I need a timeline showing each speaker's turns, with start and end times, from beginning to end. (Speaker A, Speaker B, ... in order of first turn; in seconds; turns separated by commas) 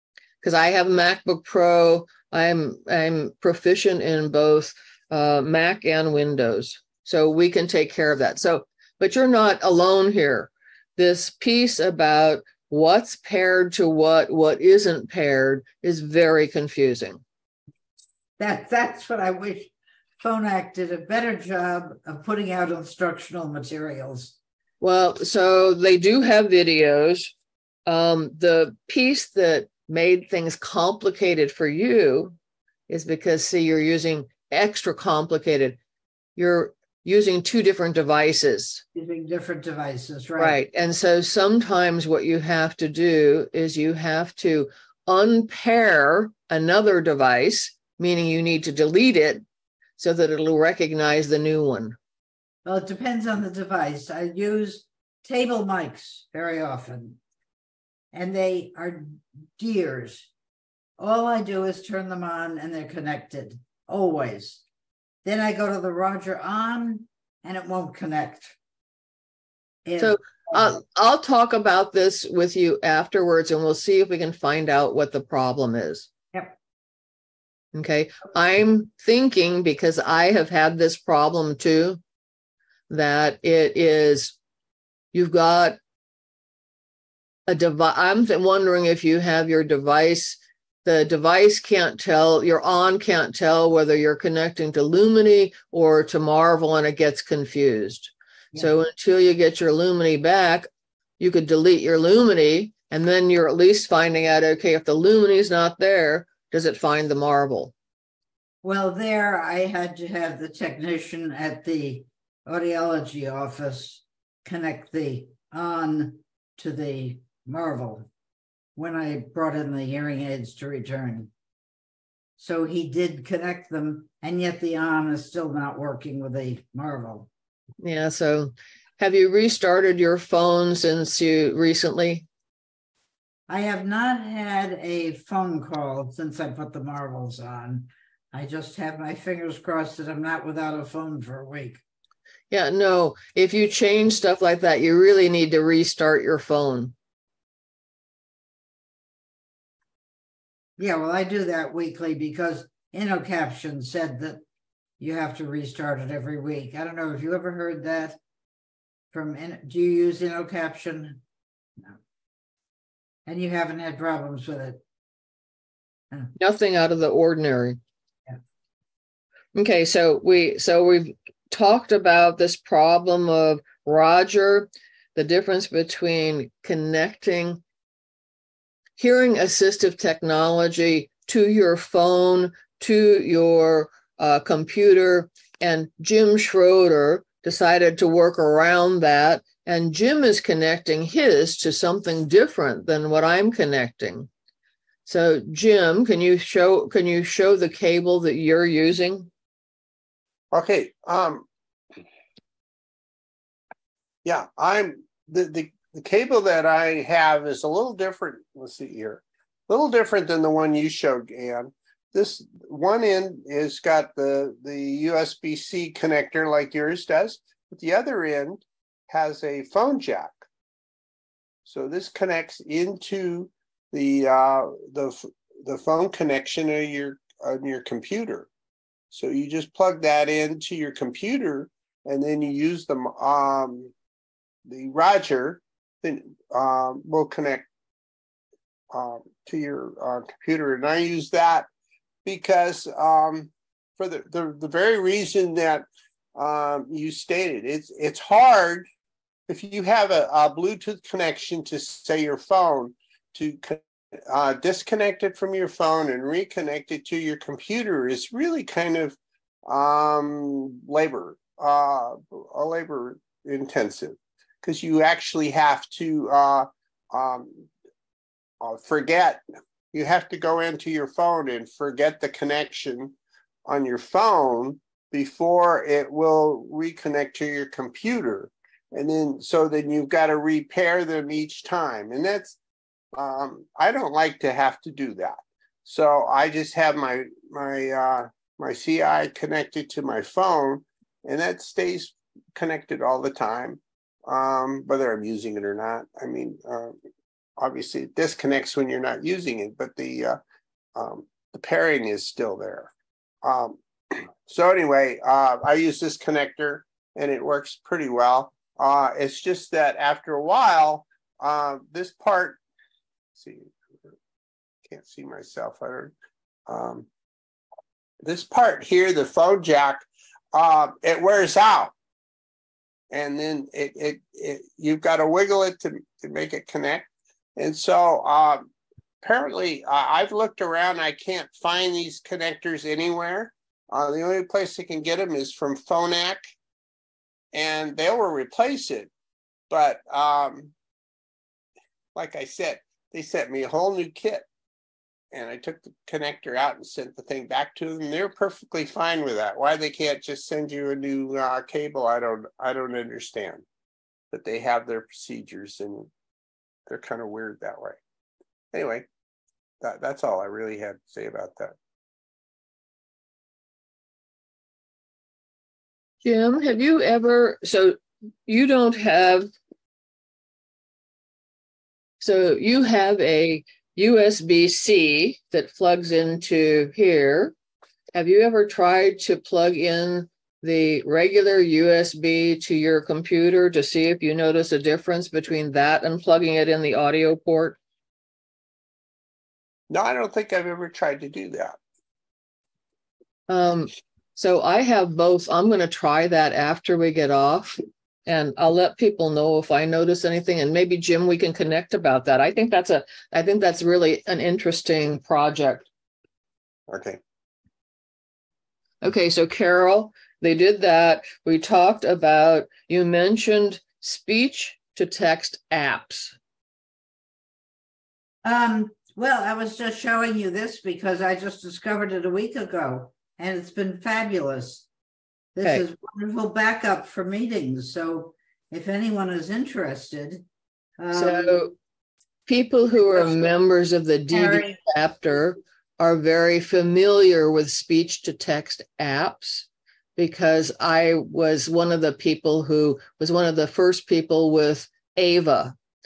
Speaker A: 0.4-17.2, Speaker B: 18.4-24.3, Speaker A: 24.8-27.3, Speaker A: 27.9-32.3, Speaker A: 32.9-35.8, Speaker A: 36.4-38.8, Speaker B: 38.9-40.6, Speaker A: 40.4-49.4, Speaker A: 50.0-52.0, Speaker B: 52.6-57.2, Speaker B: 58.1-60.3, Speaker B: 61.0-64.6, Speaker B: 65.2-68.5, Speaker B: 69.8-70.7, Speaker A: 70.0-76.1, Speaker A: 77.7-82.0, Speaker A: 82.9-84.3, Speaker A: 85.1-85.8, Speaker A: 87.5-100.7, Speaker A: 101.2-107.7, Speaker B: 108.6-118.1, Speaker B: 118.8-121.3, Speaker B: 122.4-127.3, Speaker A: 127.8-132.2, Speaker B: 133.5-141.8, Speaker A: 142.5-146.9, Speaker B: 150.8-154.4, Speaker B: 155.0-158.2, Speaker B: 159.1-161.2, Speaker B: 163.2-164.8, Speaker A: 166.3-167.8, Speaker A: 169.5-177.6, Speaker A: 179.0-194.3, Speaker A: 195.1-199.3, Speaker C: 200.5-201.4, Speaker C: 204.2-220.4, Speaker C: 221.6-228.5, Speaker C: 229.1-233.9, Speaker C: 234.7-237.7, Speaker C: 238.9-241.7, Speaker C: 242.2-248.9, Speaker C: 249.5-267.6, Speaker C: 268.6-269.4, Speaker C: 269.9-282.6, Speaker C: 283.1-296.9, Speaker C: 297.6-300.4, Speaker C: 300.9-302.9, Speaker C: 303.4-312.6, Speaker C: 313.3-313.7, Speaker C: 314.9-316.1, Speaker C: 316.7-317.1, Speaker C: 318.2-321.9, Speaker C: 323.1-328.7, Speaker C: 329.2-336.4, Speaker C: 337.5-339.1, Speaker C: 339.7-340.7, Speaker C: 342.1-344.4, Speaker C: 345.3-353.6, Speaker C: 354.3-356.1, Speaker C: 356.9-358.0, Speaker C: 358.7-359.1, Speaker C: 359.8-361.7, Speaker A: 366.2-369.5, Speaker A: 372.2-377.5, Speaker A: 378.1-387.8, Speaker C: 389.9-391.8, Speaker A: 393.5-405.9, Speaker C: 406.9-407.2, Speaker A: 409.0-416.4, Speaker B: 418.4-424.9, Speaker B: 425.6-430.4, Speaker B: 431.0-431.7, Speaker A: 431.1-431.7, Speaker A: 432.5-445.7, Speaker B: 433.1-433.5, Speaker B: 434.3-434.8